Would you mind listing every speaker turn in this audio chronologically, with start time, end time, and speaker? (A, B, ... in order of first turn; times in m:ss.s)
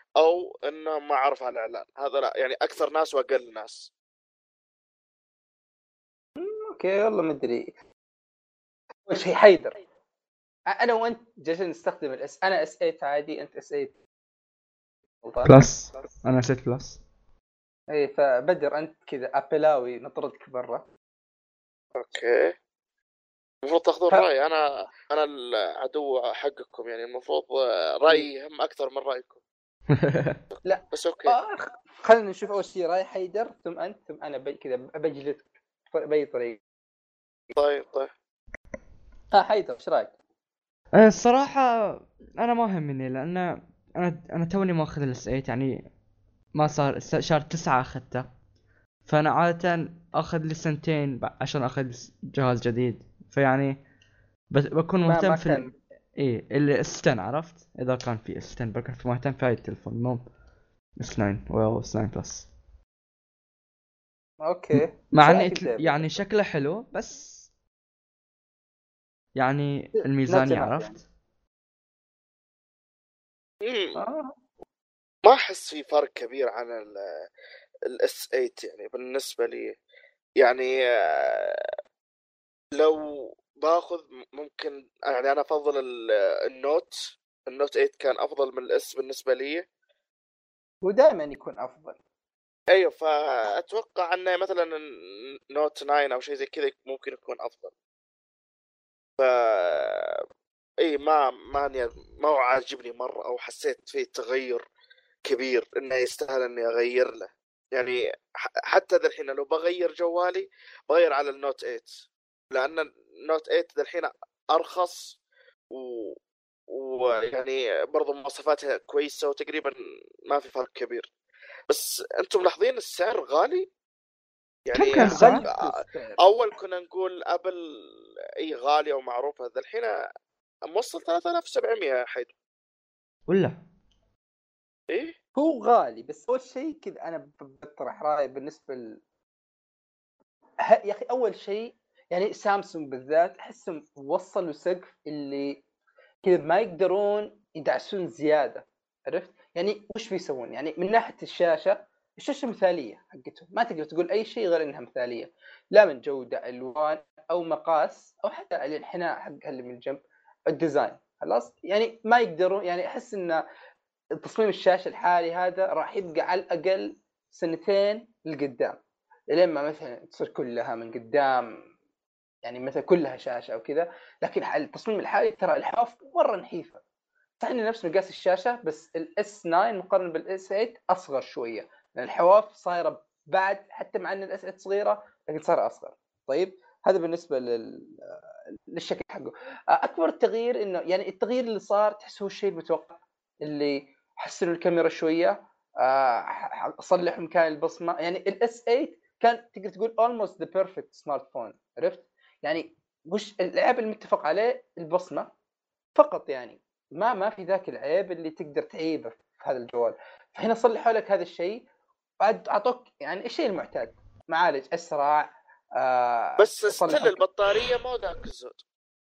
0:00.2-0:03.9 A
0:06.4-0:07.7 B
0:09.1-0:09.8 B
0:10.7-0:13.9 B
0:15.2-0:15.5 B
0:15.4-0:17.0 C
0:17.9-0:20.8 B
0:22.0-0:22.5 A
0:23.6-0:29.4 A
0:29.9-0:30.4 C
0:30.5-0:31.3 A
0:30.6-0:36.6 B
0:37.6-0:38.1 A
0:39.3-0:40.1 B
0:40.9-0:45.9 C
0:46.5-0:48.2 C
0:49.0-0:53.8 C
0:54.5-0:55.6 C
0:55.0-0:55.7 B
0:56.2-1:00.2 C
1:01.0-1:02.5 C
1:04.4-1:06.2 B
1:04.7-1:07.5 C
1:09.4-1:11.0 C
1:10.0-1:11.0 B
1:13.6-1:14.0 A
1:13.9-1:14.4 B
1:15.2-1:17.2 A
1:17.9-1:19.7 A
1:20.4-1:21.7 A
1:22.7-1:29.6 A
1:30.8-1:32.0 B
1:32.7-1:37.7 A
1:39.2-1:40.2 A
1:40.8-1:44.6 A
1:45.2-1:51.9 A
1:52.5-1:55.2 A
1:55.7-1:56.2 A
1:56.7-1:59.7 A
2:00.3-2:01.1 A
2:01.7-2:03.7 A
2:04.7-2:07.8 A
2:04.7-2:05.4 C
2:05.0-2:06.2 B
2:08.4-2:10.0 A
2:10.7-2:12.3 A
2:13.3-2:13.6 C
2:14.9-2:15.1 A
2:15.4-2:19.0 B
2:20.6-2:25.6 B
2:26.2-2:43.4 B
2:44.2-2:48.8 B
2:49.3-2:51.5 B
2:52.4-2:56.8 B
2:57.4-3:08.2 B
3:08.7-3:25.3 B
3:25.9-3:31.7 B
3:32.2-3:37.2 B
3:36.4-3:38.6 A